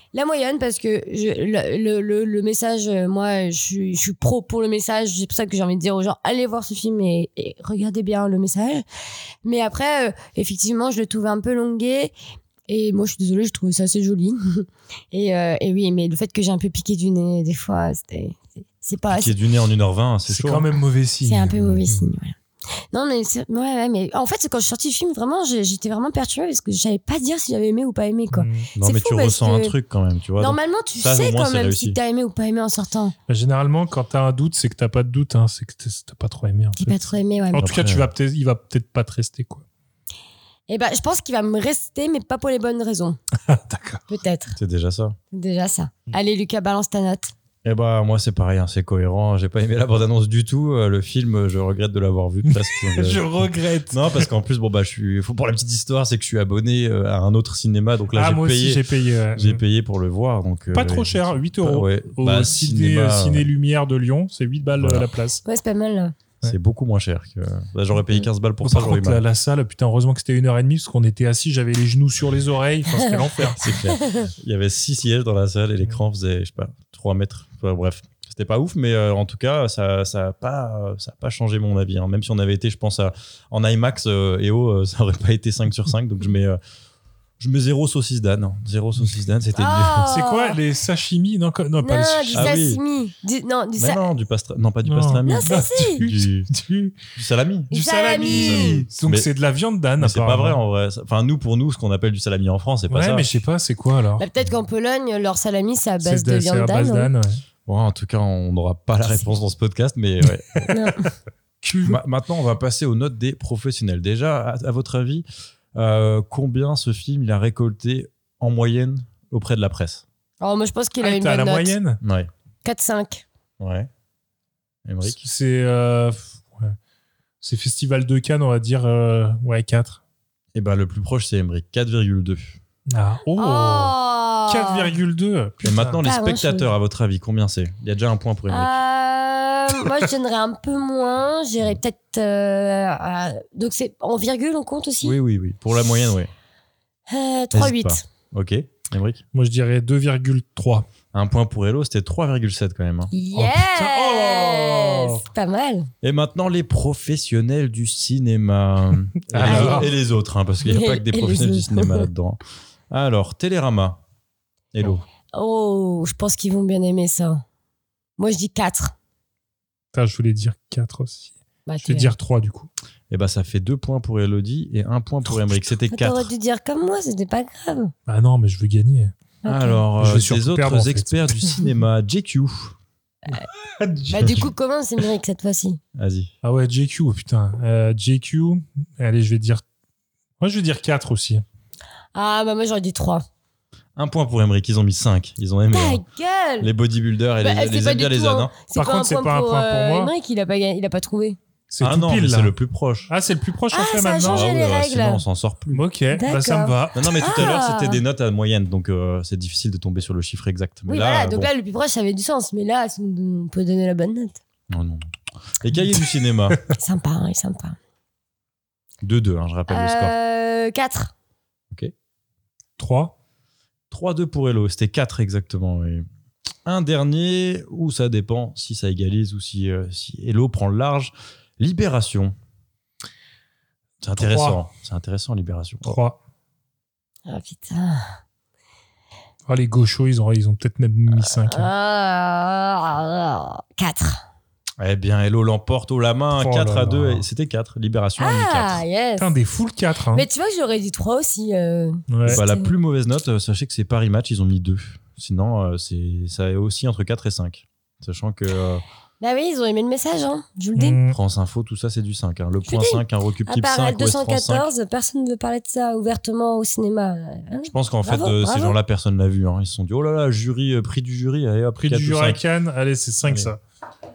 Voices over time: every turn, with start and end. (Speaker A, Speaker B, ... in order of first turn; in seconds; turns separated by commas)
Speaker A: 0.1-8.8, Speaker A: 9.4-12.1, Speaker A: 12.7-19.4, Speaker B: 19.1-20.7, Speaker C: 20.3-22.1, Speaker A: 21.2-22.4, Speaker A: 22.9-29.8, Speaker C: 28.3-28.7, Speaker B: 28.8-32.0, Speaker A: 30.4-33.1, Speaker C: 33.3-39.6, Speaker A: 36.8-37.6, Speaker B: 37.6-38.1, Speaker A: 40.7-43.2, Speaker C: 43.5-44.0, Speaker A: 44.1-44.6, Speaker B: 44.6-45.2, Speaker A: 45.3-47.3, Speaker B: 47.6-63.5, Speaker C: 52.5-54.3, Speaker C: 58.1-59.6, Speaker C: 60.7-65.4, Speaker B: 64.8-65.1, Speaker A: 65.5-66.2, Speaker B: 66.4-69.2, Speaker C: 68.6-73.7, Speaker B: 73.6-86.6, Speaker A: 73.9-74.3, Speaker B: 87.4-90.1, Speaker A: 89.6-90.6, Speaker C: 90.1-92.5, Speaker A: 91.8-94.0, Speaker B: 92.3-92.8, Speaker B: 93.8-96.5, Speaker C: 94.8-97.0, Speaker A: 95.3-96.0, Speaker B: 97.1-99.3, Speaker C: 97.7-100.6, Speaker A: 97.7-98.8, Speaker B: 100.0-103.3, Speaker C: 102.9-104.2, Speaker A: 104.2-107.1, Speaker C: 106.0-107.4, Speaker B: 107.7-110.7, Speaker A: 110.7-111.1, Speaker C: 111.6-112.0, Speaker B: 111.8-120.0, Speaker A: 120.4-121.8, Speaker C: 121.0-122.0, Speaker B: 122.0-122.3, Speaker A: 122.7-123.2, Speaker B: 123.6-123.9, Speaker B: 124.9-125.2, Speaker C: 125.0-126.8, Speaker C: 127.4-130.0, Speaker B: 130.6-132.6, Speaker C: 132.9-133.9, Speaker A: 133.4-134.9, Speaker C: 134.5-136.0, Speaker B: 135.6-138.8, Speaker A: 136.0-136.7, Speaker A: 138.5-145.2, Speaker B: 145.0-146.3, Speaker A: 147.1-148.0, Speaker B: 147.5-149.2, Speaker C: 149.3-150.9, Speaker B: 151.1-153.1, Speaker A: 153.1-155.9, Speaker C: 153.3-155.2, Speaker B: 156.0-164.0, Speaker C: 159.3-159.9, Speaker A: 159.4-159.9, Speaker A: 160.7-162.1, Speaker B: 164.7-165.0, Speaker A: 165.3-167.4, Speaker A: 168.2-168.9, Speaker C: 169.9-171.3, Speaker A: 171.7-172.1, Speaker C: 171.8-172.7, Speaker B: 173.1-176.3, Speaker C: 175.3-175.5, Speaker A: 175.9-177.9, Speaker C: 178.1-179.1, Speaker A: 179.4-179.8, Speaker B: 179.5-182.8, Speaker C: 180.0-181.4, Speaker C: 183.3-184.5, Speaker A: 184.1-185.8, Speaker B: 185.9-186.3, Speaker C: 186.4-189.6, Speaker C: 190.4-191.4, Speaker A: 192.2-193.2, Speaker B: 194.0-196.0, Speaker A: 195.7-196.7, Speaker B: 196.6-198.5, Speaker A: 197.4-201.4, Speaker C: 198.7-200.1, Speaker C: 201.7-202.5, Speaker B: 201.8-203.1, Speaker C: 203.1-204.4, Speaker A: 203.7-205.2, Speaker B: 204.2-205.8, Speaker C: 205.7-207.5, Speaker A: 206.1-208.0, Speaker B: 206.9-211.5, Speaker A: 210.9-214.4, Speaker B: 214.7-215.1, Speaker B: 215.6-216.6, Speaker A: 216.8-217.8, Speaker B: 219.0-220.2, Speaker A: 219.7-221.1, Speaker C: 222.8-223.1, Speaker B: 223.9-226.1, Speaker B: 226.7-232.3, Speaker B: 234.0-236.0, Speaker C: 234.2-234.6, Speaker C: 235.8-236.2, Speaker A: 237.3-238.2, Speaker C: 239.5-241.7, Speaker A: 241.2-244.2, Speaker B: 244.8-248.8, Speaker C: 246.3-247.3, Speaker A: 248.2-249.3, Speaker C: 249.2-250.3, Speaker A: 250.1-252.7, Speaker C: 252.1-252.4, Speaker B: 252.3-258.8, Speaker A: 259.2-261.0, Speaker C: 260.8-261.2, Speaker B: 261.1-264.7, Speaker A: 262.7-268.8, Speaker B: 267.7-272.4, Speaker C: 271.8-273.6